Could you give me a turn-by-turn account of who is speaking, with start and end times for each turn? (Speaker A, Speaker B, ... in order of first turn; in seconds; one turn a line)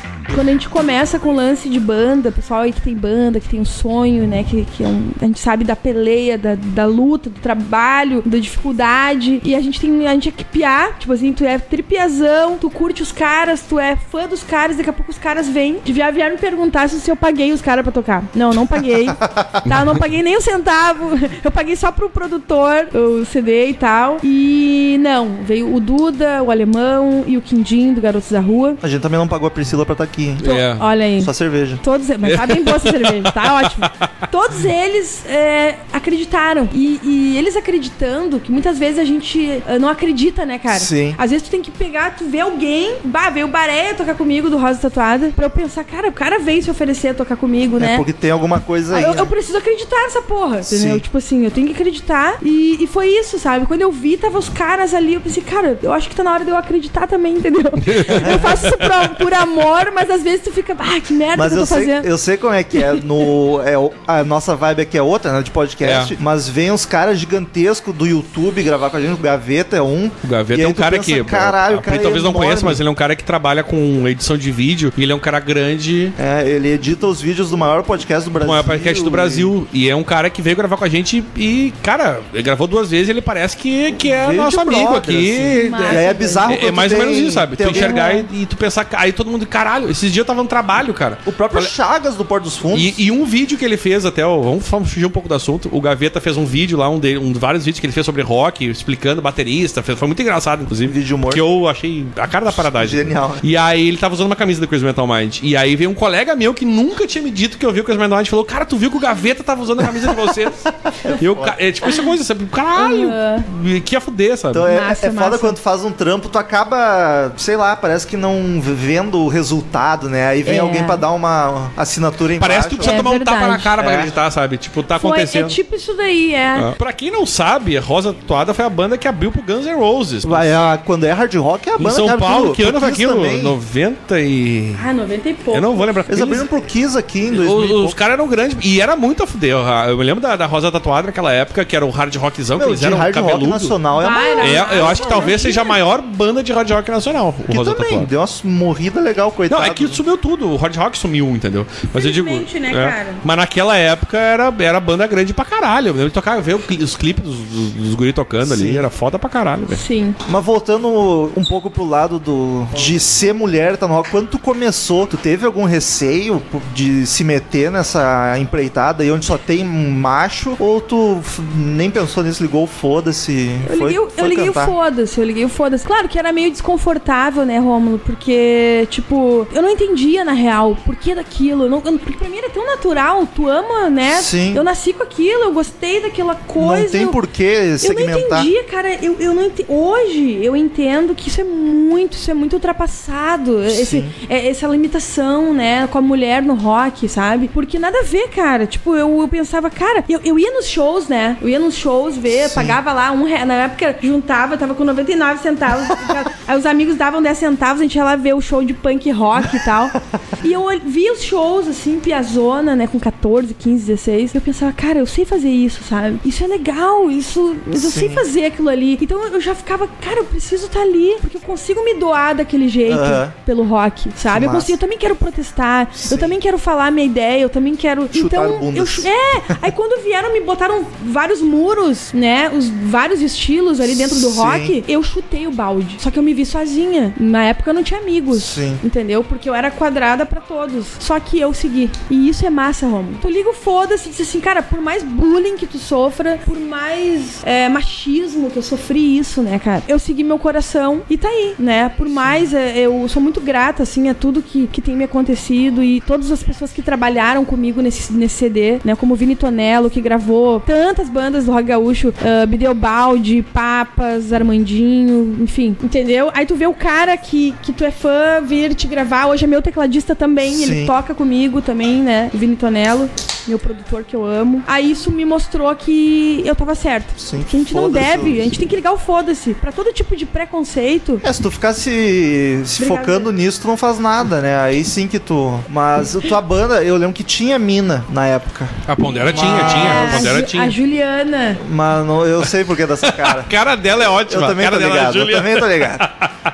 Speaker A: 0.3-28.8
Speaker B: 19.2-19.5
Speaker C: 19.6-20.0
Speaker B: 28.8-30.4
Speaker C: 30.4-30.9
Speaker A: 30.4-48.0
Speaker B: 31.2-31.8
Speaker C: 32.2-34.1
Speaker B: 40.7-41.2
Speaker B: 47.8-49.3
Speaker A: 48.9-62.1
Speaker B: 50.6-51.0
Speaker C: 57.8-59.1
Speaker B: 58.1-58.6
Speaker B: 61.3-72.8
Speaker A: 62.8-63.0
Speaker C: 65.8-66.1
Speaker C: 70.2-76.1
Speaker B: 76.2-79.5
Speaker C: 78.4-91.7
Speaker B: 84.0-88.0
Speaker A: 85.6-86.5
Speaker A: 87.7-88.3
Speaker B: 91.2-93.0
Speaker C: 92.7-110.6
Speaker B: 100.8-101.4
Speaker B: 102.5-103.4
Speaker B: 111.0-111.5
Speaker C: 111.2-114.7
Speaker A: 112.8-113.5
Speaker B: 114.5-123.1
Speaker A: 114.7-115.6
Speaker A: 120.4-121.0
Speaker C: 122.4-125.6
Speaker A: 122.8-123.7
Speaker B: 123.8-124.2
Speaker A: 125.0-126.7
Speaker C: 126.5-130.5
Speaker B: 130.2-133.6
Speaker C: 131.8-134.8
Speaker A: 134.8-136.1
Speaker C: 135.5-136.4
Speaker B: 136.1-138.0
Speaker C: 137.3-143.8
Speaker B: 142.6-145.3
Speaker A: 143.9-145.8
Speaker C: 144.4-148.1
Speaker B: 147.5-150.0
Speaker C: 149.5-159.8
Speaker A: 151.9-153.2
Speaker B: 158.4-158.8
Speaker A: 159.7-160.2
Speaker B: 160.2-174.7
Speaker A: 173.6-187.2
Speaker B: 184.1-184.6
Speaker B: 186.6-188.5
Speaker A: 187.8-281.2
Speaker B: 193.7-194.1
Speaker B: 202.3-202.8
Speaker B: 217.7-218.2
Speaker B: 222.9-223.3
Speaker B: 224.3-224.7
Speaker B: 226.0-226.3
Speaker B: 228.1-229.6
Speaker B: 233.8-234.8
Speaker B: 238.3-238.8
Speaker B: 252.2-252.5
Speaker B: 270.4-270.9
Speaker B: 277.2-278.6
Speaker B: 281.2-288.8
Speaker A: 282.8-283.3
Speaker C: 288.9-290.7
Speaker A: 289.0-291.6
Speaker B: 289.3-290.3
Speaker B: 291.6-293.5
Speaker C: 293.1-296.3
Speaker B: 294.1-296.1